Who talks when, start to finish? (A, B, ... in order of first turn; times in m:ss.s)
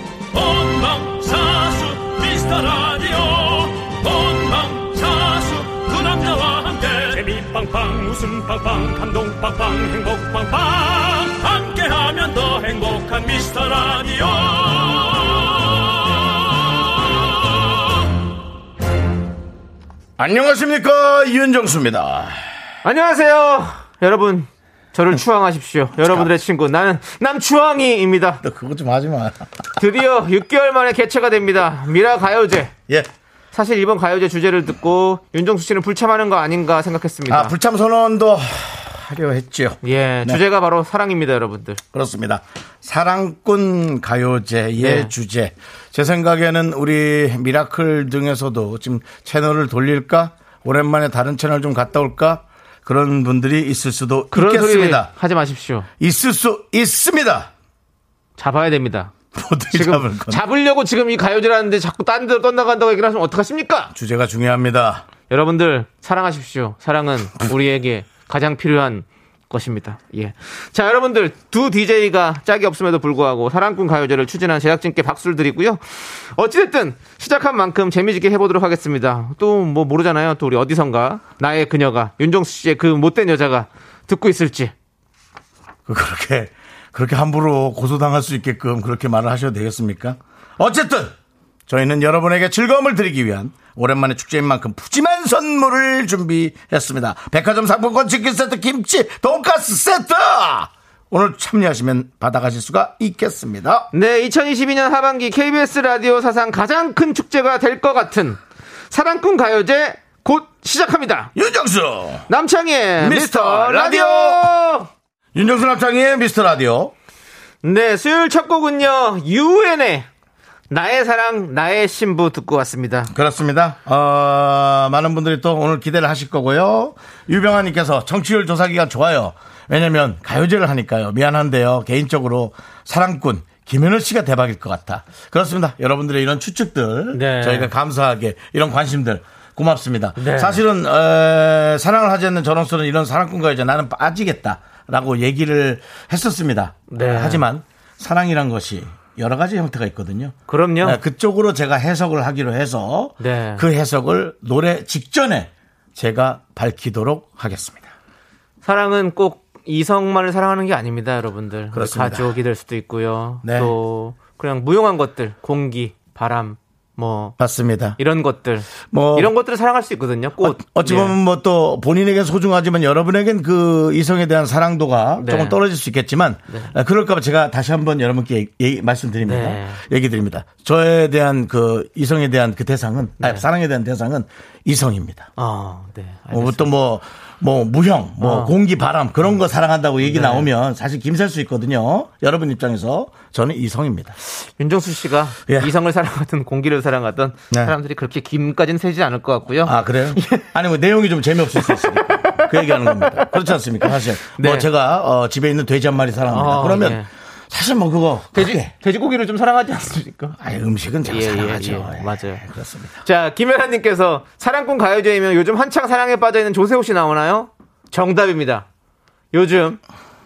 0:00.3-0:17.7 A
0:20.2-0:22.4 B
0:22.8-0:28.4 C
0:28.4-0:29.5 B
0:29.8-0:32.7 C
0:33.5-0:37.6 C
0:37.3-0:40.4 B
0:39.8-0:41.8 C
0:41.9-0:55.1 B
0:44.8-0:45.1 C
0:54.3-0:55.8 C
0:56.0-0:57.5 B
0:58.4-0:59.1 C
0:59.3-1:00.4 B
0:59.7-1:03.9 C
1:03.9-1:05.0 B
1:05.3-1:24.7 C
1:25.9-1:31.1 B
1:31.7-1:43.9 B
1:43.9-1:48.4 C
1:48.9-1:51.3 C
1:51.3-1:52.3 B
1:52.3-1:54.9 C
1:53.0-1:54.5 B
1:55.3-1:56.9 B
1:57.6-2:00.1 C
2:00.7-2:03.1 C
2:03.1-2:37.9 B
2:17.1-2:17.7 C
2:20.2-2:20.6 C
2:26.9-2:27.4 C
2:30.5-2:31.0 C
2:33.2-2:33.7 C
2:38.6-2:47.4 C
2:41.7-2:42.3 B
2:43.4-2:43.7 B
2:47.4-2:48.0 B
2:48.0-2:51.2 C
2:48.9-2:49.3 B
2:50.4-3:05.3 B
2:55.2-2:55.6 C
2:59.2-2:59.8 C
3:03.2-3:03.4 C
3:05.4-3:06.7 C
3:06.3-3:14.2 B
3:08.2-3:08.5 C
3:10.0-3:10.5 C
3:14.4-3:20.4 C
3:15.5-3:15.7 B
3:19.6-3:28.7 B
3:21.6-3:23.3 C
3:23.8-3:24.7 C
3:26.2-3:27.1 C
3:28.3-3:30.4 C
3:30.4-3:33.0 B
3:31.1-3:32.4 C
3:33.0-3:38.7 C
3:39.3-3:39.8 C